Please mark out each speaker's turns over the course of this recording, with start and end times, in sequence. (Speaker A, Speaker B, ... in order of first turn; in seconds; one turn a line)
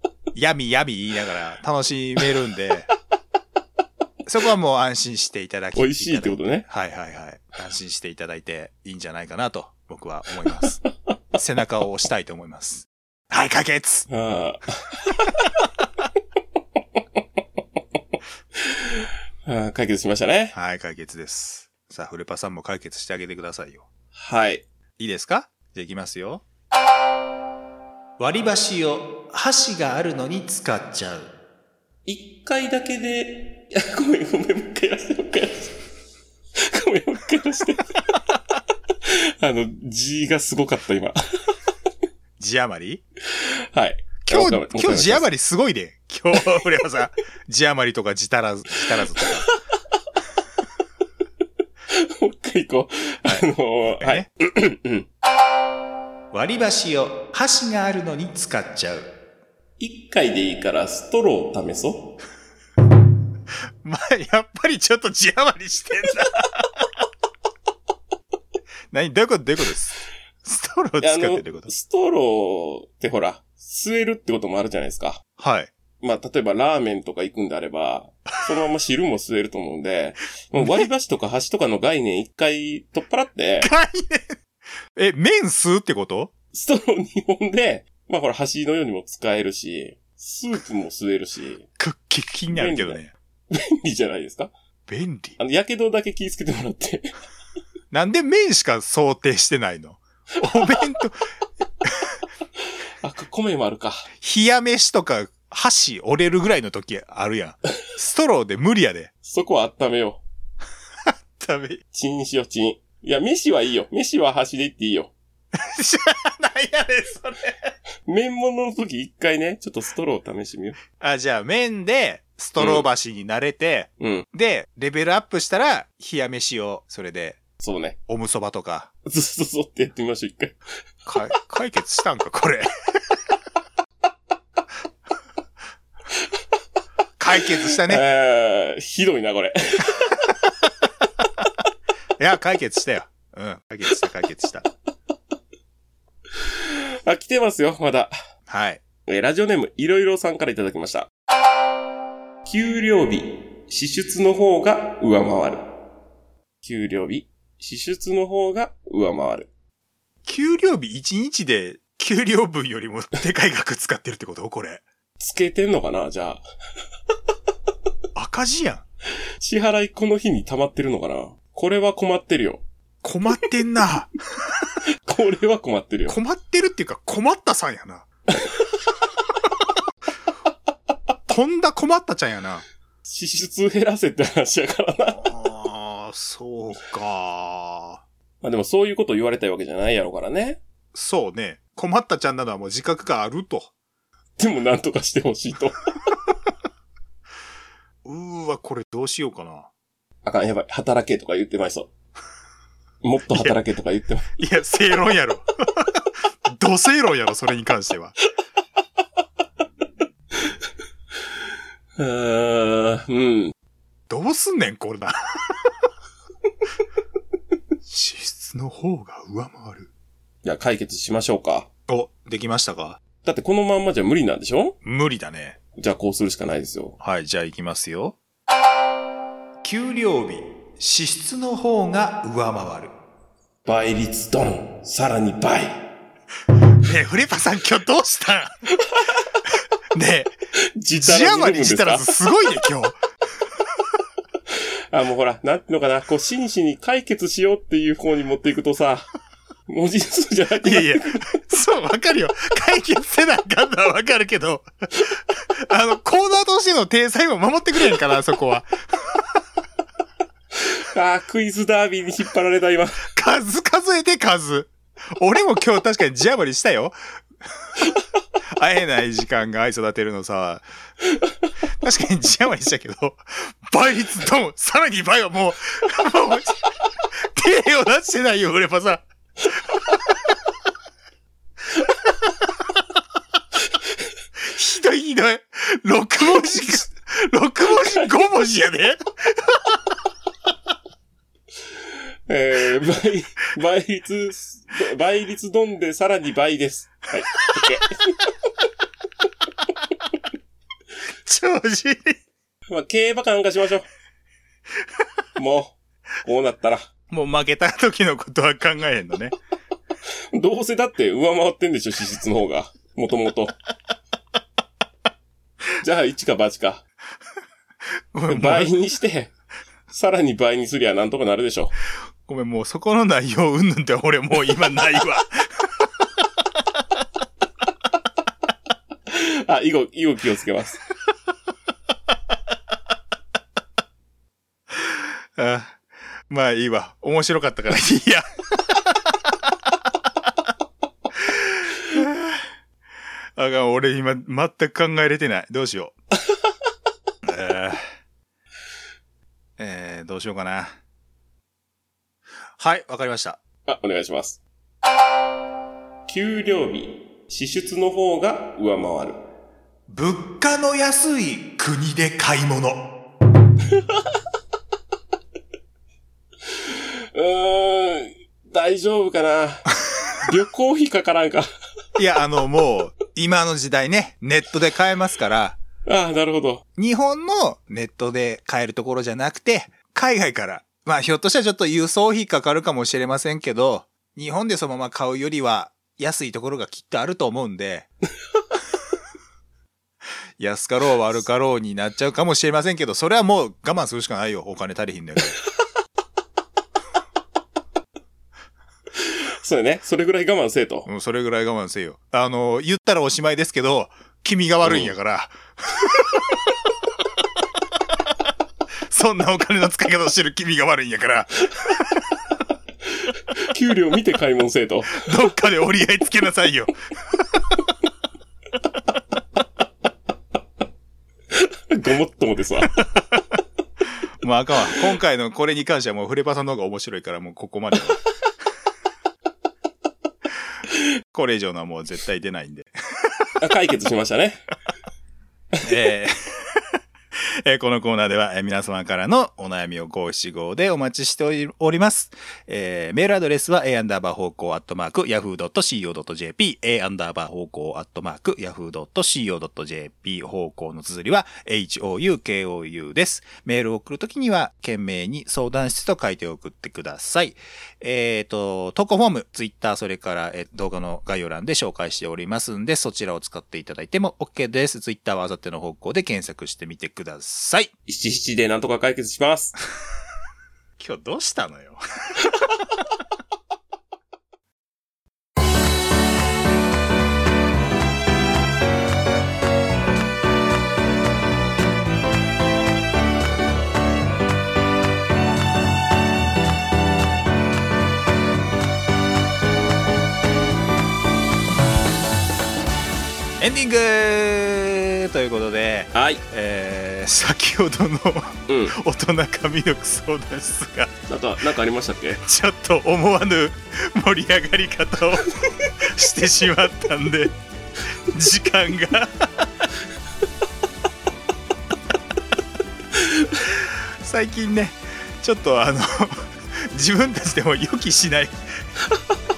Speaker A: 0.3-2.9
Speaker A: 4.3-10.8
Speaker B: 5.8-6.7
Speaker A: 11.4-14.1
Speaker B: 14.1-15.3
Speaker B: 18.6-20.6
Speaker A: 20.5-23.9
Speaker B: 24.1-24.6
Speaker A: 25.0-26.4
Speaker A: 28.2-31.3
Speaker B: 32.1-35.7
Speaker B: 36.6-38.0
Speaker B: 39.0-41.2
Speaker A: 42.4-43.0
Speaker B: 43.3-45.2
Speaker A: 44.2-49.5
Speaker B: 49.1-49.6
Speaker B: 51.9-55.1
Speaker A: 54.0-54.3
Speaker A: 56.3-59.1
Speaker B: 59.8-62.1
Speaker A: 63.8-66.9
Speaker A: 68.9-71.7
Speaker B: 71.0-75.2
Speaker A: 75.4-75.7
Speaker B: 76.0-83.7
Speaker A: 80.6-80.9
Speaker A: 83.6-84.4
Speaker A: 84.9-86.3
Speaker B: 86.5-91.7
Speaker A: 91.8-93.1
Speaker B: 92.5-93.0
Speaker B: 93.5-94.5
Speaker A: 94.9-95.4
Speaker B: 95.4-97.1
Speaker A: 97.9-101.3
Speaker B: 100.6-100.9
Speaker A: 101.8-102.2
Speaker B: 103.0-104.1
Speaker A: 104.2-109.1
Speaker B: 109.2-110.2
Speaker A: 111.1-111.8
Speaker B: 111.9-115.1
Speaker A: 115.5-117.7
Speaker B: 118.1-120.8
Speaker A: 121.0-127.4
Speaker B: 122.6-122.9
Speaker B: 124.0-124.3
Speaker B: 127.6-128.0
Speaker A: 128.1-128.9
Speaker B: 129.1-130.6
Speaker A: 131.1-133.2
Speaker A: 137.2-138.0
Speaker B: 137.8-140.0
Speaker A: 142.2-144.7
Speaker B: 146.6-148.1
Speaker A: 148.5-148.8
Speaker B: 149.1-151.1
Speaker B: 152.4-155.7
Speaker B: 156.6-159.5
Speaker A: 160.2-164.8
Speaker B: 165.2-166.4
Speaker A: 168.2-168.8
Speaker B: 169.4-172.6
Speaker A: 173.0-174.1
Speaker B: 175.0-176.2
Speaker A: 176.1-178.1
Speaker A: 181.3-182.7
Speaker B: 183.1-185.3
Speaker A: 185.2-188.0
Speaker B: 188.4-190.6
Speaker A: 190.9-193.7
Speaker B: 194.4-195.8
Speaker A: 198.1-199.7
Speaker B: 200.2-201.9
Speaker B: 203.0-204.3
Speaker A: 203.3-203.6
Speaker A: 204.4-208.2
Speaker B: 212.0-213.6
Speaker A: 214.1-215.7
Speaker A: 217.9-219.9
Speaker B: 220.4-221.7
Speaker A: 221.9-223.0
Speaker B: 223.2-224.8
Speaker A: 224.8-225.6
Speaker B: 225.8-227.0
Speaker A: 227.0-228.2
Speaker A: 229.6-232.9
Speaker B: 233.7-235.8
Speaker A: 236.8-238.6
Speaker B: 238.8-239.2
Speaker A: 239.9-240.3
Speaker B: 240.8-242.1
Speaker A: 241.0-243.0
Speaker B: 244.5-249.1
Speaker B: 249.7-251.3
Speaker A: 250.6-259.4
Speaker B: 260.6-263.1
Speaker A: 263.1-267.0
Speaker A: 268.5-270.7
Speaker A: 271.8-280.1
Speaker A: 284.4-289.8
Speaker B: 287.7-288.1
Speaker B: 292.3-298.2
Speaker A: 301.1-302.2
Speaker B: 302.7-303.9
Speaker B: 305.4-306.9
Speaker A: 307.1-309.4
Speaker B: 310.3-313.6
Speaker B: 315.8-316.8
Speaker A: 318.1-318.7
Speaker B: 318.3-319.3
Speaker B: 319.9-321.7
Speaker A: 322.3-326.8
Speaker B: 329.1-330.8
Speaker A: 334.7-339.9
Speaker A: 341.1-342.5
Speaker A: 343.4-345.9
Speaker A: 347.2-347.8
Speaker A: 349.6-350.8
Speaker A: 352.6-353.4
Speaker B: 353.7-354.4
Speaker B: 356.1-359.2
Speaker A: 359.9-362.9
Speaker B: 363.7-364.0
Speaker B: 366.6-369.7
Speaker B: 370.2-371.5
Speaker A: 372.0-375.6
Speaker B: 375.9-376.6
Speaker A: 376.8-387.9
Speaker A: 390.4-395.4
Speaker B: 399.0-400.9
Speaker A: 400.9-406.5
Speaker B: 404.6-404.9
Speaker A: 408.9-412.2
Speaker B: 413.4-415.1
Speaker A: 414.9-417.6
Speaker B: 421.3-422.8
Speaker A: 422.8-423.2
Speaker A: 424.2-428.0
Speaker A: 431.1-433.4
Speaker B: 433.4-434.5
Speaker A: 435.6-467.7
Speaker B: 467.9-469.6
Speaker A: 470.8-472.5
Speaker A: 493.4-500.9
Speaker B: 495.9-496.2
Speaker B: 498.5-498.8
Speaker B: 501.1-502.2
Speaker A: 502.2-507.3
Speaker A: 507.9-509.7
Speaker B: 513.1-513.4
Speaker A: 513.5-518.6